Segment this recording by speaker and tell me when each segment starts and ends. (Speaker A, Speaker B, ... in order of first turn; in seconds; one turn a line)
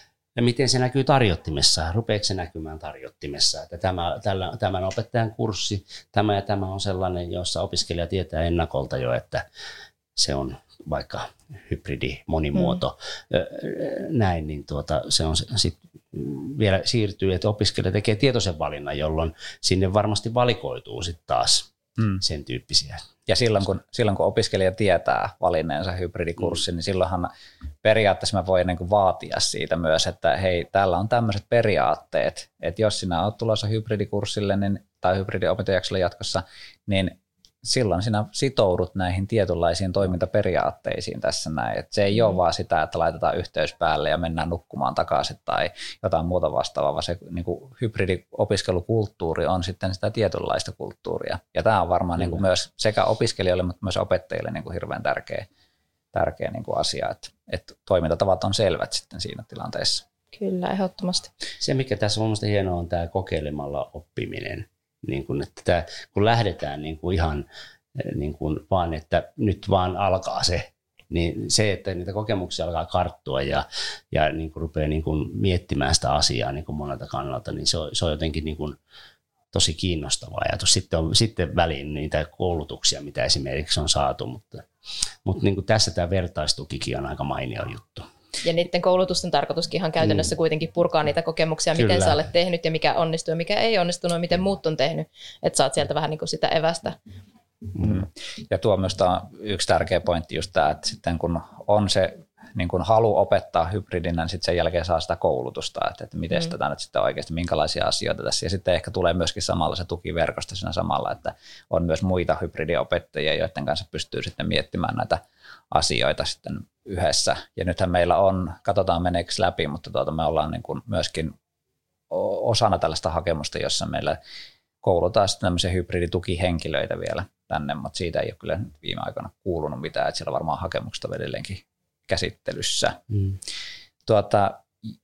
Speaker A: 0.4-9.4
Speaker A: 10.2-21.7
Speaker A: 22.2-23.1
Speaker B: 23.3-27.3
Speaker B: 27.8-55.5
Speaker B: 56.1-60.0
Speaker C: 60.3-61.3
Speaker A: 61.6-78.8
Speaker A: 79.5-84.7
Speaker A: 85.2-88.1
Speaker C: 88.4-97.0
Speaker A: 91.8-92.2
Speaker B: 97.8-121.3
Speaker B: 122.1-124.2
Speaker B: 124.8-133.0
Speaker B: 134.1-134.6